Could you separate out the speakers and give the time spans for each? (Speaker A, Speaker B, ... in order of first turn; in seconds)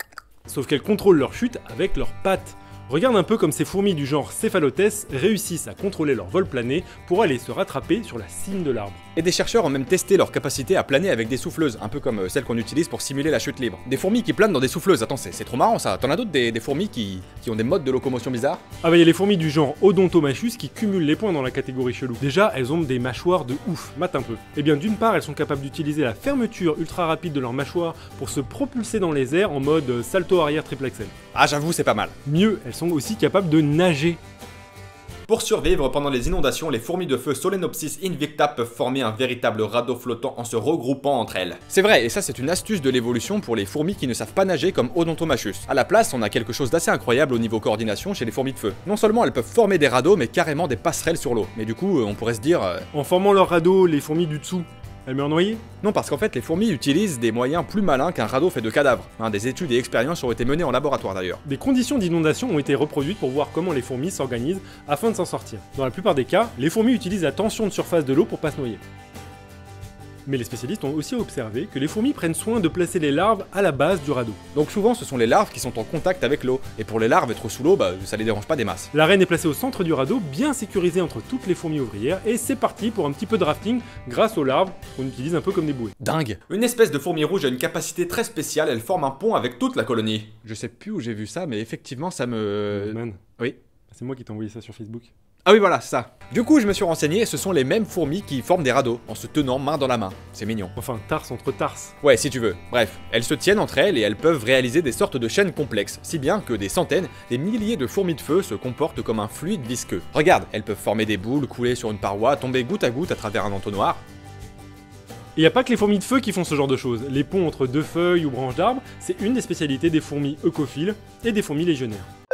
Speaker A: 0.5-9.0, 18.8-31.1, 32.2-34.2, 52.9-55.6, 61.5-68.8, 70.3-74.4, 78.9-86.0, 92.7-93.2, 93.9-95.1, 100.8-102.0, 115.4-122.1
Speaker B: 9.2-18.6, 31.3-32.1, 35.3-52.9, 55.8-61.4, 74.5-78.9, 86.0-93.6, 95.5-100.7, 102.0-114.0